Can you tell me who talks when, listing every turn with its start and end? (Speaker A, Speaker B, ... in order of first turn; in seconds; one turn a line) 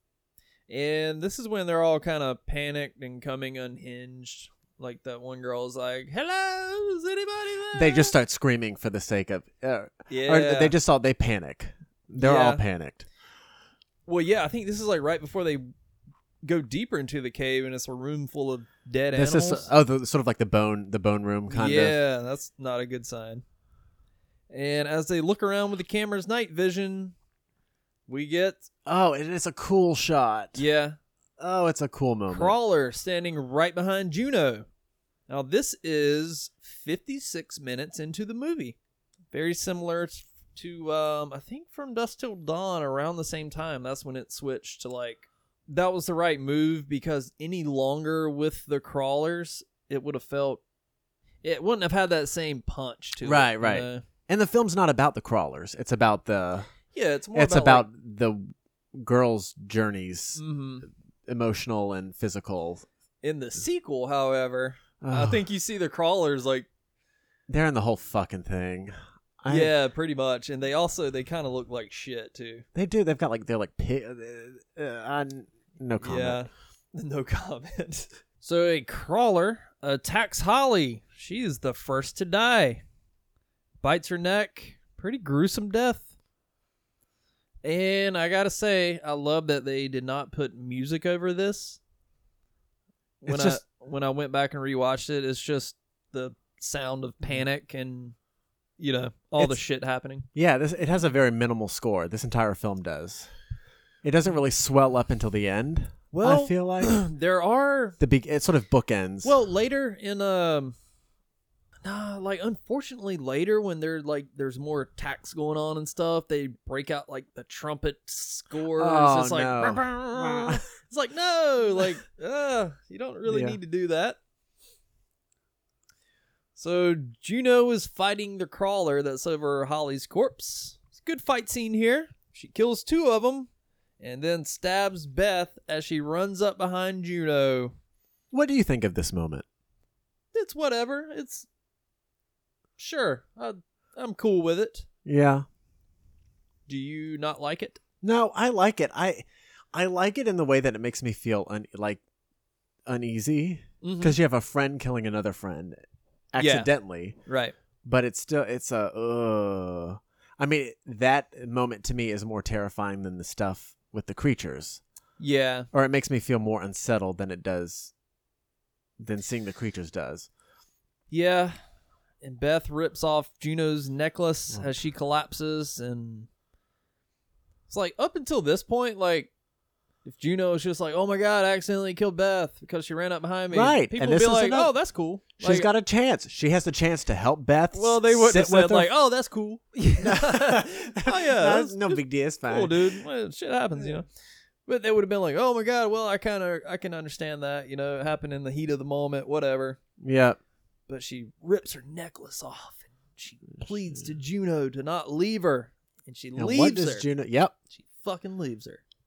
Speaker A: 0.7-8.1
Speaker B: 7.7-13.1
Speaker A: 10.1-10.7
Speaker A: 12.2-12.6
Speaker A: 14.1-15.6
Speaker A: 16.4-19.7
Speaker B: 19.1-22.0
Speaker A: 21.5-23.4
Speaker A: 24.5-27.1
Speaker A: 28.1-28.7
Speaker B: 28.9-30.6
Speaker A: 30.6-31.0
Speaker B: 31.4-32.5
Speaker A: 32.3-34.6
Speaker A: 35.3-38.8
Speaker A: 39.3-50.6
Speaker A: 51.4-54.0
Speaker B: 53.2-56.7
Speaker A: 56.9-57.9
Speaker B: 57.3-60.4
Speaker A: 60.3-60.9
Speaker B: 61.3-62.9
Speaker A: 63.2-66.7
Speaker B: 65.0-65.5
Speaker B: 67.5-69.7
Speaker A: 69.5-72.6
Speaker B: 72.7-76.5
Speaker A: 76.0-82.8
Speaker A: 83.8-86.1
Speaker A: 87.6-91.8
Speaker A: 93.2-98.1
Speaker B: 93.3-93.6
Speaker A: 98.8-100.3
Speaker B: 100.3-103.3
Speaker B: 104.0-107.0
Speaker A: 106.1-108.0
Speaker B: 108.0-109.4
Speaker A: 109.2-110.7
Speaker A: 111.8-124.2
Speaker B: 118.7-120.6
Speaker B: 123.3-123.6
Speaker A: 126.5-133.5
Speaker A: 134.0-137.7
Speaker B: 138.3-139.4
Speaker A: 140.3-141.5
Speaker A: 142.8-144.9
Speaker B: 145.1-145.4
Speaker A: 146.7-147.8
Speaker B: 148.0-152.0
Speaker B: 152.9-155.8
Speaker A: 153.8-154.2
Speaker B: 156.3-157.2
Speaker A: 156.4-156.7
Speaker A: 157.2-157.6
Speaker B: 157.8-164.8
Speaker A: 165.2-165.7
Speaker B: 165.7-167.9
Speaker B: 169.0-170.3
Speaker A: 171.1-171.6
Speaker A: 172.2-176.3
Speaker A: 177.7-179.3
Speaker A: 180.1-185.7
Speaker B: 183.5-184.7
Speaker B: 185.4-188.9
Speaker A: 187.7-194.1
Speaker B: 190.0-192.9
Speaker A: 194.7-199.8
Speaker B: 200.0-200.4
Speaker A: 200.9-207.1
Speaker B: 206.4-207.5
Speaker A: 207.7-208.8